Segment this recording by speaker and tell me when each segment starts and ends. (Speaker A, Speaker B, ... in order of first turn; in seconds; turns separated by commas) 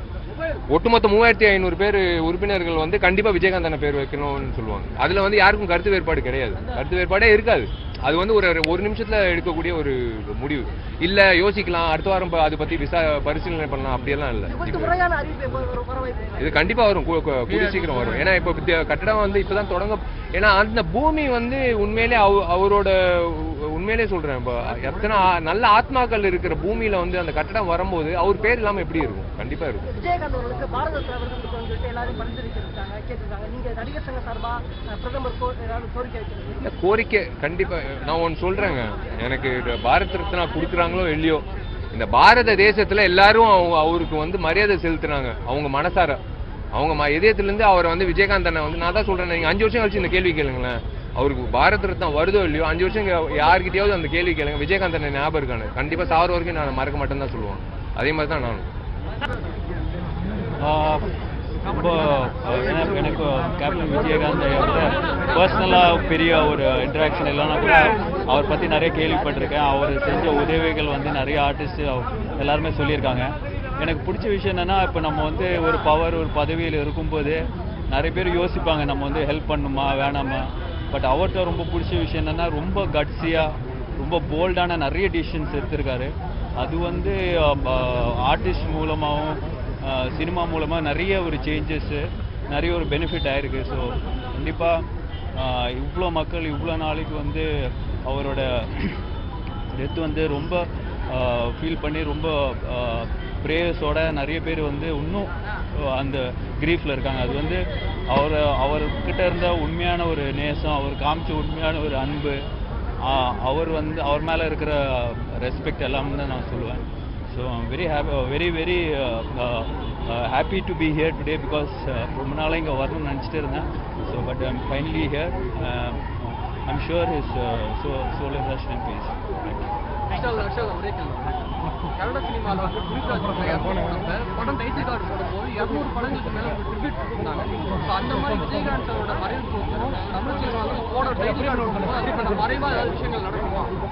Speaker A: 0.7-15.0, Speaker B: 14.5-16.5, Speaker A: 16.4-29.9, Speaker B: 29.9-36.6, Speaker A: 36.6-46.2, Speaker A: 46.7-58.7, Speaker C: 60.6-61.1, Speaker C: 61.7-99.0, Speaker C: 99.7-112.5, Speaker C: 113.0-129.7, Speaker D: 130.1-143.7